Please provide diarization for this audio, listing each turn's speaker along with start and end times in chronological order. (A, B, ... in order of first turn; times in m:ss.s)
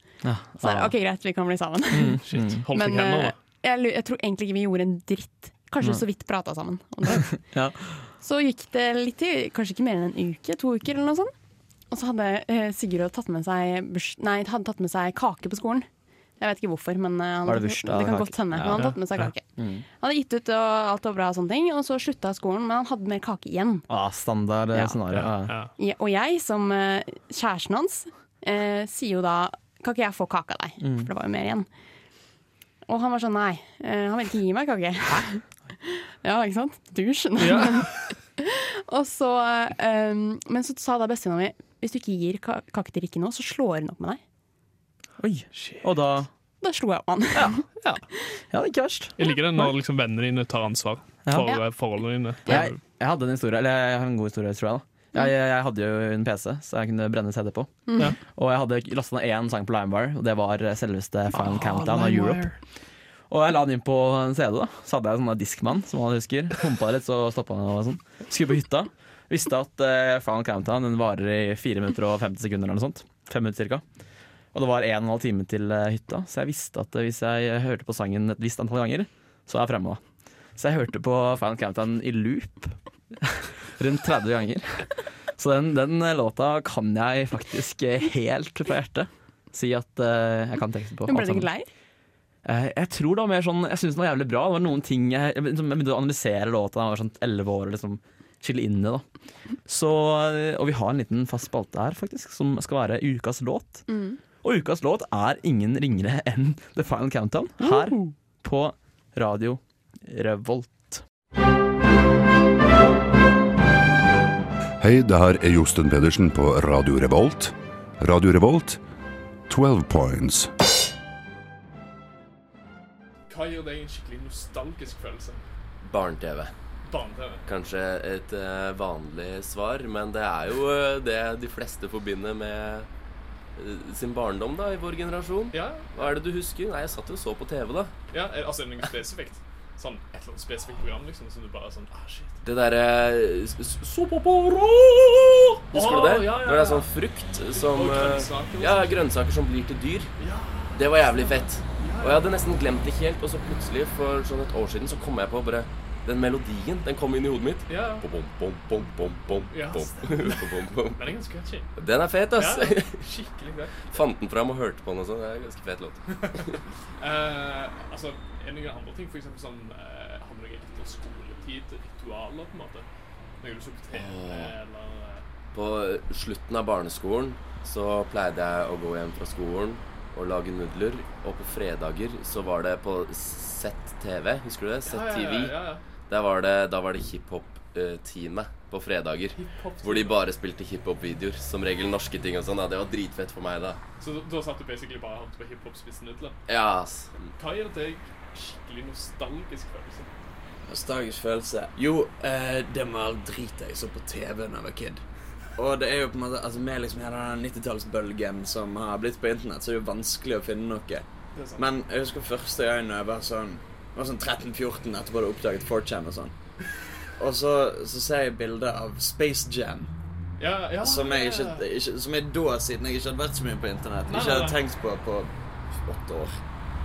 0:00.2-0:00.9 A
0:00.6-0:07.3 B
0:01.9-0:02.6 A
0:02.3-0:03.4 C
0:07.1-0:08.0 A
0:08.2-0:11.3 B
0:11.9-0:15.9 B
0:16.4-0:19.4 B
0:17.4-0:19.0 A
0:18.7-0:19.3 C
0:19.6-0:19.8 A
0:20.0-0:23.9 B
0:23.9-0:25.5 A
0:25.1-0:25.7 C
0:25.8-0:31.7 B
0:30.8-0:31.1 A
0:32.9-0:44.2 B
0:37.4-0:37.9 C
0:45.2-0:46.3 A
0:45.5-0:45.8 C
0:46.6-0:47.6 B
0:47.3-0:47.6 A
0:48.5-0:49.2 A
0:49.2-0:52.8 C
0:52.4-1:02.5 A
1:01.3-1:02.6 C
1:03.3-1:13.8 A
1:14.5-1:20.0 A
1:20.6-1:31.5 A
1:31.1-1:31.7 B
1:32.4-1:39.0 A
1:39.6-1:43.8 A
1:43.9-1:44.2 B
1:44.4-1:51.0 A
1:47.6-1:48.1 B
1:54.8-1:58.8 D
1:59.5-2:00.5 D
2:03.3-2:05.4 C
2:05.8-2:06.5 E
2:06.9-2:07.4 C
2:07.4-2:12.9 E
2:13.6-2:17.9 E
2:15.5-2:16.1 C
2:18.1-2:22.4 C
2:22.4-2:30.1 E
2:25.7-2:26.9 C
2:27.5-2:29.0 C
2:30.2-2:32.2 C
2:30.7-2:41.0 E
2:37.7-2:38.0 C
2:39.5-2:41.7 C
2:41.8-2:43.0 E
2:42.3-2:44.0 C
2:43.9-2:46.6 E
2:47.0-2:52.8 C
2:53.4-2:55.2 C
2:53.9-2:54.6 E
2:55.5-3:13.8 E
3:04.8-3:05.8 C
3:09.4-3:10.2 C
3:14.0-3:16.4 C
3:16.5-3:17.3 E
3:17.4-3:20.1 C
3:20.7-3:25.0 F
3:25.6-3:31.0 F
3:31.3-3:31.6 C
3:31.6-3:36.3 F
3:37.2-3:39.9 F
3:40.4-3:41.6 C
3:40.8-3:45.3 F
3:44.0-3:44.6 C
3:45.8-3:46.4 F